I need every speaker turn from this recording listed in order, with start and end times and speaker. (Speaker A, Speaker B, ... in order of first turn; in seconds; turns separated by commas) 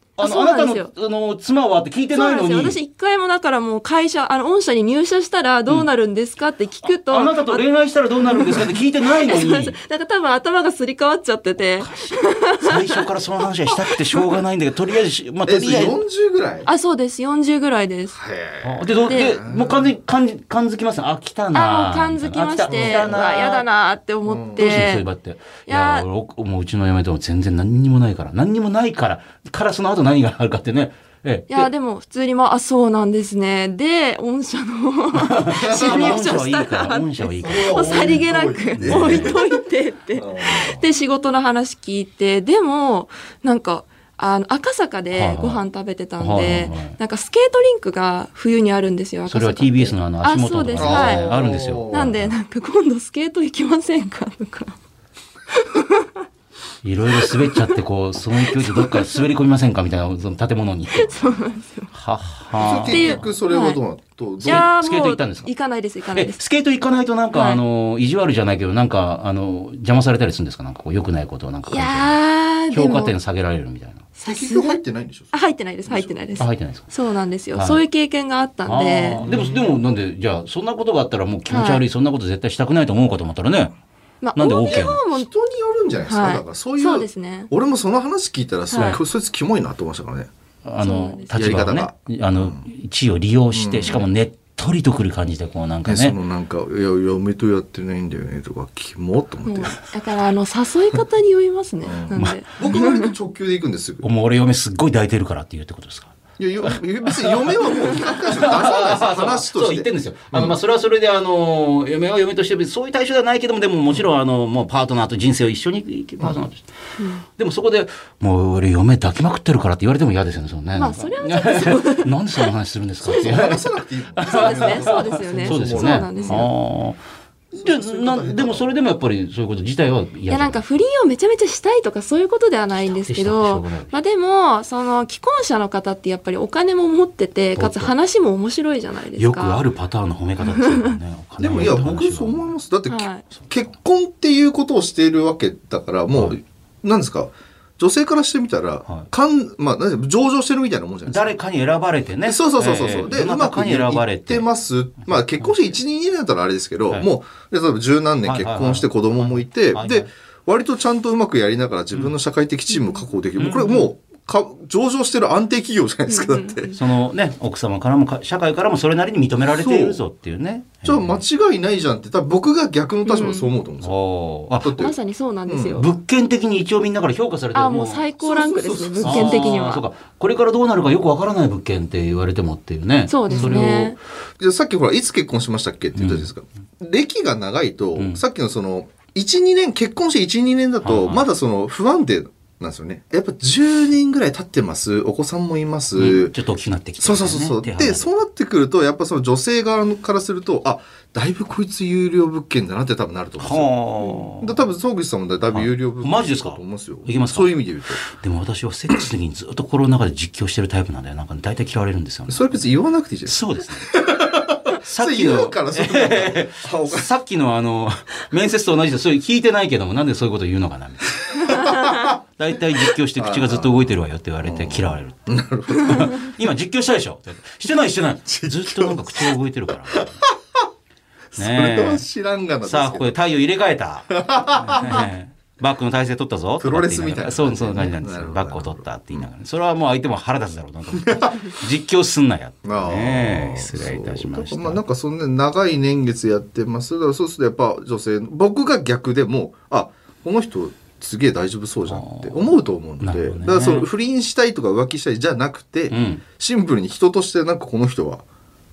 Speaker A: 0.2-2.8, Speaker B: 0.2-0.9, Speaker B: 2.1-7.7, Speaker A: 6.8-9.8, Speaker B: 8.2-13.1, Speaker A: 11.8-16.0, Speaker C: 15.4-16.7, Speaker B: 16.6-18.2, Speaker C: 18.1-19.9, Speaker A: 18.6-23.7, Speaker B: 19.1-19.4, Speaker B: 21.5-25.1, Speaker C: 22.7-23.2, Speaker C: 24.3-24.9, Speaker A: 24.6-31.7, Speaker B: 25.7-26.1, Speaker B: 31.5-51.3, Speaker A: 35.1-39.4, Speaker C: 35.5-36.4, Speaker C: 37.4-39.6, Speaker C: 40.1-40.8, Speaker A: 45.1-45.6, Speaker A: 46.2-47.0, Speaker A: 49.3-52.3, Speaker C: 50.8-52.3, Speaker B: 51.9-54.8, Speaker B: 55.5-56.1, Speaker A: 56.8-61.3, Speaker B: 57.2-57.8, Speaker B: 58.5-59.2, Speaker B: 61.0-61.9, Speaker A: 61.9-63.3, Speaker C: 62.6-64.7, Speaker B: 62.9-63.8, Speaker B: 64.4-66.4, Speaker A: 64.5-65.5, Speaker A: 66.1-72.2, Speaker B: 67.3-67.6, Speaker B: 71.7-73.2, Speaker A: 72.7-74.1, Speaker B: 74.2-74.8, Speaker C: 74.3-75.3, Speaker B: 75.3-79.2, Speaker C: 75.9-76.1, Speaker A: 76.4-76.9, Speaker A: 77.5-77.8, Speaker A: 78.7-83.7, Speaker C: 79.2-79.7, Speaker B: 81.5-81.8, Speaker B: 84.2-85.3, Speaker A: 84.4-85.0, Speaker C: 84.7-90.3, Speaker B: 86.1-87.5, Speaker B: 88.7-89.0, Speaker A: 90.7-96.2, Speaker B: 90.8-91.5, Speaker C: 91.3-92.7, Speaker C: 93.5-94.0, Speaker C: 95.9-99.8, Speaker B: 99.5-103.1, Speaker C: 101.8-104.1, Speaker A: 104.0-106.2, Speaker C: 106.4-110.5, Speaker A: 106.7-116.7, Speaker B: 117.0-117.2, Speaker A: 117.4-123.6, Speaker B: 120.8-122.5, Speaker B: 123.1-123.5, Speaker C: 123.1-126.5, Speaker A: 124.2-127.0, Speaker B: 124.2-126.5, Speaker C: 127.5-128.7, Speaker A: 127.6-130.6, Speaker B: 130.3-139.6, Speaker A: 132.8-133.9, Speaker A: 137.6-137.9, Speaker A: 139.2-142.6, Speaker B: 140.6-141.0, Speaker C: 141.4-151.4, Speaker B: 142.9-143.2, Speaker A: 151.1-154.5, Speaker C: 152.2-166.8, Speaker A: 155.1-155.6, Speaker A: 158.2-160.1, Speaker A: 163.4-163.9, Speaker B: 166.1-166.8, Speaker A: 166.7-171.2, Speaker C: 169.5-170.0, Speaker C: 170.8-174.0, Speaker B: 173.1-173.5, Speaker A: 173.8-174.8, Speaker C: 174.6-174.9, Speaker B: 174.8-175.9, Speaker C: 175.5-175.8, Speaker A: 175.8-178.1, Speaker B: 177.5-179.8, Speaker C: 178.2-179.6, Speaker A: 179.0-184.0, Speaker B: 183.1-184.0, Speaker C: 183.3-183.7, Speaker C: 184.4-196.3, Speaker A: 186.0-186.3, Speaker A: 188.0-188.2, Speaker A: 190.8-191.3, Speaker A: 195.9-198.1, Speaker C: 197.0-208.0, Speaker A: 203.4-204.6, Speaker A: 205.5-212.6, Speaker C: 212.3-217.1, Speaker A: 213.3-213.9, Speaker A: 214.8-225.2, Speaker C: 221.3-222.2, Speaker C: 223.2-226.3, Speaker A: 225.7-230.2, Speaker C: 228.3-229.4, Speaker C: 229.9-230.6, Speaker C: 231.3-233.2, Speaker A: 231.4-232.0, Speaker A: 232.7-244.8, Speaker C: 234.1-235.1, Speaker C: 236.6-239.3, Speaker C: 241.0-241.5, Speaker C: 242.7-258.2, Speaker A: 251.9-253.9, Speaker A: 255.9-256.2